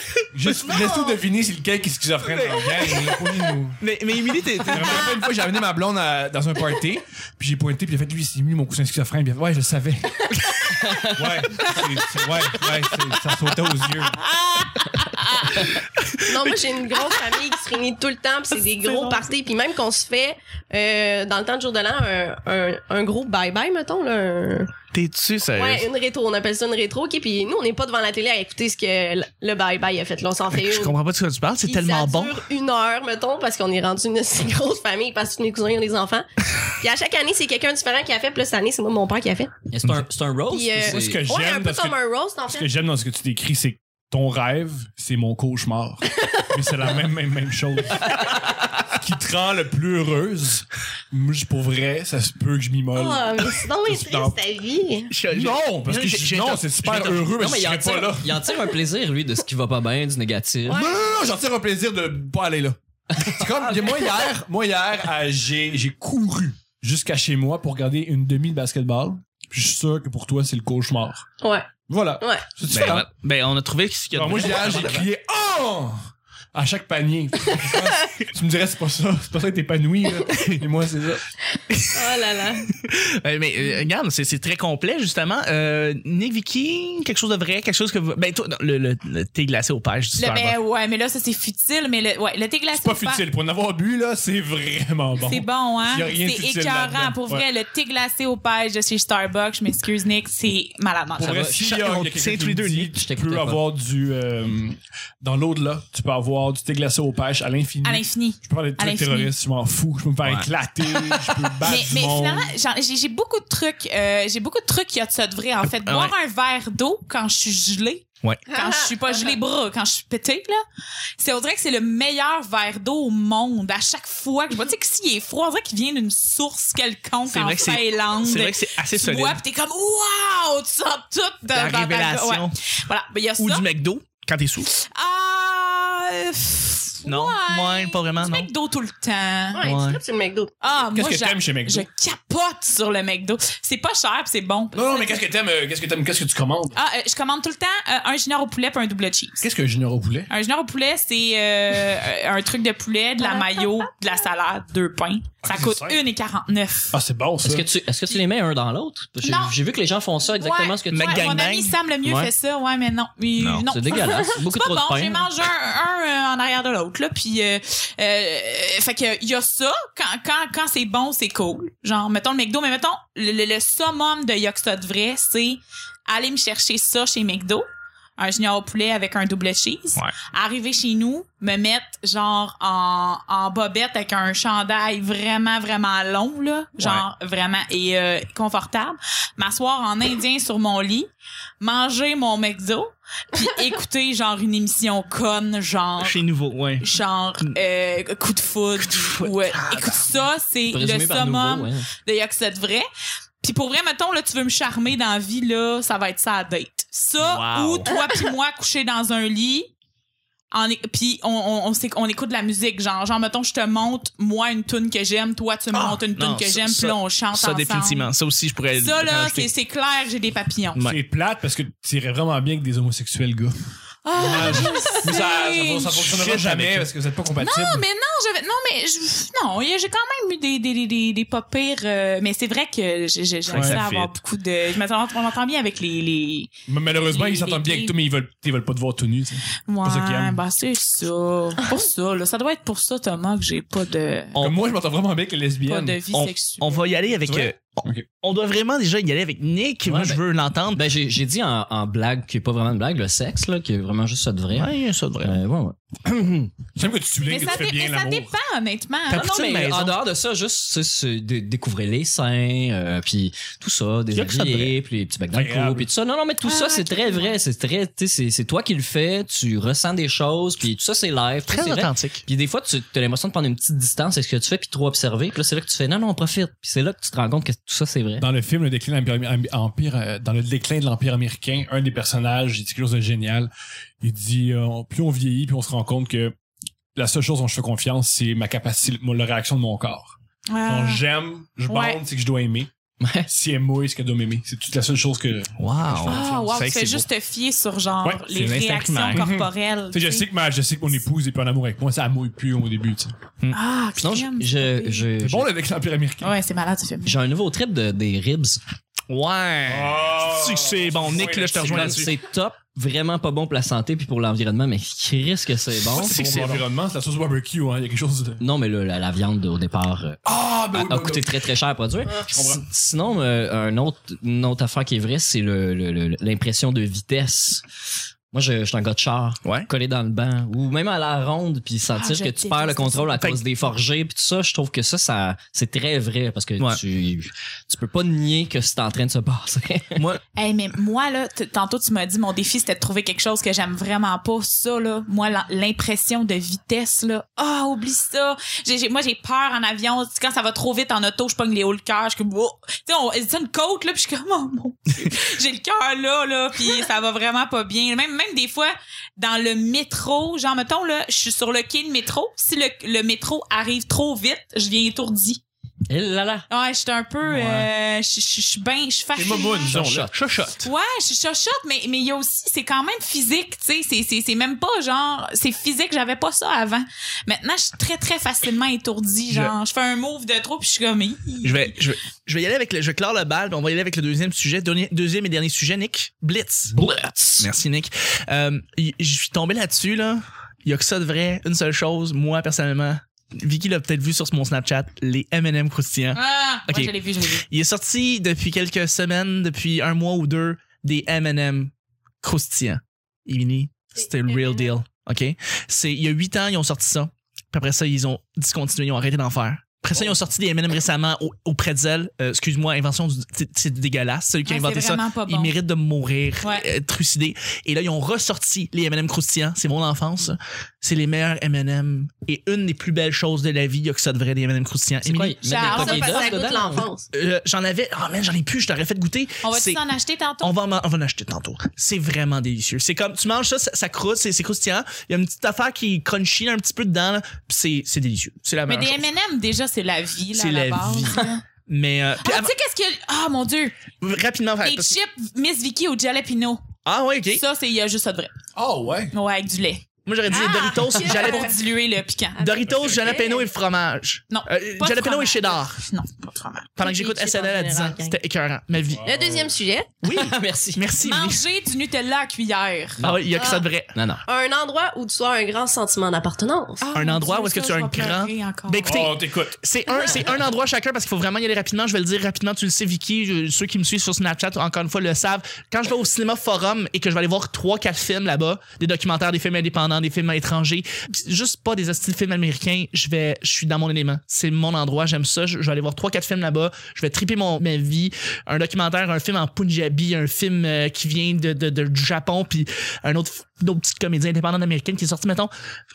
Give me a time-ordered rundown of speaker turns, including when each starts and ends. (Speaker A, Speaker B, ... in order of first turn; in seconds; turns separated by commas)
Speaker A: 0.3-3.8, Speaker B: 2.2-3.2, Speaker B: 3.8-5.1, Speaker A: 4.7-10.4, Speaker B: 10.5-10.8, Speaker C: 10.8-11.2, Speaker A: 11.1-14.2, Speaker B: 14.4-17.3, Speaker D: 15.2-15.5, Speaker E: 16.2-24.7, Speaker B: 24.9-25.9, Speaker E: 25.5-30.9, Speaker B: 30.5-32.4, Speaker E: 31.6-39.5, Speaker C: 39.7-41.2, Speaker E: 40.5-42.7, Speaker A: 40.8-42.0, Speaker A: 42.5-54.4, Speaker E: 52.9-55.1, Speaker B: 55.1-57.4, Speaker A: 55.3-58.5, Speaker C: 57.4-60.9, Speaker A: 60.7-71.2, Speaker E: 60.7-61.0, Speaker C: 63.1-64.1, Speaker E: 71.4-71.7, Speaker A: 71.9-73.1, Speaker E: 72.2-72.4, Speaker B: 72.7-75.1, Speaker A: 74.1-81.3, Speaker E: 81.8-82.7, Speaker B: 82.8-90.5, Speaker D: 90.2-93.2, Speaker A: 92.7-97.5, Speaker D: 95.2-101.4, Speaker A: 101.2-112.5, Speaker C: 101.2-101.6, Speaker B: 101.5-102.9, Speaker C: 102.9-103.6, Speaker D: 107.8-109.3, Speaker D: 111.6-120.6, Speaker B: 115.7-116.1, Speaker E: 118.5-119.3, Speaker D: 121.2-133.6, Speaker B: 127.3-129.4, Speaker B: 131.5-132.6, Speaker B: 133.4-134.7, Speaker D: 134.7-139.7, Speaker B: 137.0-138.5, Speaker E: 139.5-140.5, Speaker B: 139.6-140.0, Speaker D: 140.6-145.2, Speaker A: 140.9-141.9, Speaker A: 144.7-146.8, Speaker D: 146.7-149.4, Speaker A: 149.4-150.3, Speaker D: 150.3-157.0, Speaker E: 153.2-153.8, Speaker A: 155.4-156.0, Speaker A: 156.9-157.7, Speaker C: 157.4-161.3, Speaker D: 159.2-159.6, Speaker D: 160.2-177.6, Speaker B: 160.9-161.8, Speaker C: 162.0-162.3, Speaker B: 163.4-163.7, Speaker C: 163.7-165.3, Speaker E: 164.0-164.3, Speaker D: 178.2-191.1, Speaker B: 186.8-187.0, Speaker D: 191.6-196.2, Speaker B: 196.0-196.9, Speaker D: 196.8-202.8, Speaker B: 198.8-200.2, Speaker C: 200.7-201.9, Speaker D: 203.4-209.7, Speaker B: 207.2-207.9, Speaker D: 210.5-218.1, Speaker B: 215.7-219.4, Speaker D: 218.8-220.8, Speaker A: 219.1-219.5, Speaker A: 220.8-223.6, Speaker D: 224.0-226.1, Speaker A: 224.1-227.8, Speaker B: 226.1-226.9, Speaker D: 227.4-237.9, Speaker B: 233.5-234.1, Speaker A: 233.5-233.8, Speaker A: 236.7-240.4, Speaker D: 239.7-244.5, Speaker A: 244.4-246.0, Speaker D: 245.7-247.0, Speaker B: 246.1-250.8, Speaker A: 247.2-248.0, Speaker C: 249.8-250.2, Speaker C: 250.7-256.6, Speaker B: 254.5-255.4, Speaker A: 256.7-258.3, Speaker D: 257.2-259.7, Speaker B: 259.1-260.0, Speaker C: 259.5-278.2, Speaker B: 264.1-264.8, Speaker A: 265.3-265.9, Speaker D: 266.4-267.4, Speaker B: 271.5-272.2, Speaker A: 278.2-286.3, Speaker A: 286.9-292.7, Speaker D: 290.5-291.0, Speaker D: 291.7-292.0, Speaker C: 293.0-293.3, Speaker A: 293.3-296.7, Speaker B: 295.6-297.0, Speaker D: 296.1-300.2, Speaker B: 298.3-299.2, Speaker A: 299.1-303.1, Speaker D: 303.5-305.1, Speaker C: 304.0-305.5, Speaker A: 305.2-306.4, Speaker D: 306.2-307.2, Speaker C: 307.0-308.6, Speaker B: 309.1-312.1, Speaker A: 309.7-312.0, Speaker C: 311.6-316.2, Speaker A: 315.9-318.4, Speaker B: 315.9-316.6, Speaker C: 318.4-327.6, Speaker A: 320.2-321.4, Speaker A: 322.2-322.6, Speaker C: 328.3-340.0, Speaker B: 329.4-329.7, Speaker D: 331.9-333.2, Speaker B: 339.9-340.2, Speaker D: 340.4-365.4, Speaker C: 365.9-366.4, Speaker D: 366.5-369.8, Speaker A: 367.2-367.7, Speaker A: 369.1-370.5, Speaker C: 369.7-370.1, Speaker B: 369.9-370.7, Speaker D: 370.6-381.7, Speaker B: 381.4-386.7, Speaker A: 386.7-387.5, Speaker B: 387.4-426.0, Speaker D: 396.1-397.4, Speaker E: 404.2-404.7, Speaker D: 414.4-415.5, Speaker D: 416.4-416.7, Speaker C: 425.0-426.9, Speaker D: 425.4-426.3, Speaker E: 425.7-427.1, Speaker B: 427.1-429.8, Speaker D: 429.4-430.5, Speaker B: 430.4-439.1, Speaker D: 438.7-441.4, Speaker B: 440.3-442.5, Speaker D: 442.2-443.8, Speaker B: 444.0-445.0, Speaker D: 444.6-446.6, Speaker B: 446.8-447.4, Speaker D: 447.3-448.3, Speaker A: 448.6-449.1, Speaker D: 449.1-452.4, Speaker B: 450.1-451.6, Speaker E: 450.3-451.6, Speaker E: 452.4-453.5, Speaker B: 452.4-455.8, Speaker A: 452.6-453.2, Speaker D: 454.3-456.7, Speaker B: 456.8-459.0, Speaker E: 456.8-458.2, Speaker A: 458.9-459.5, Speaker E: 459.0-460.0, Speaker B: 460.0-461.4, Speaker C: 460.1-460.9, Speaker D: 461.0-463.0, Speaker C: 463.0-463.3, Speaker B: 463.0-463.9, Speaker E: 463.3-463.6, Speaker C: 463.9-464.2, Speaker E: 464.2-466.9, Speaker D: 466.8-469.0, Speaker B: 466.9-495.5, Speaker A: 468.8-469.6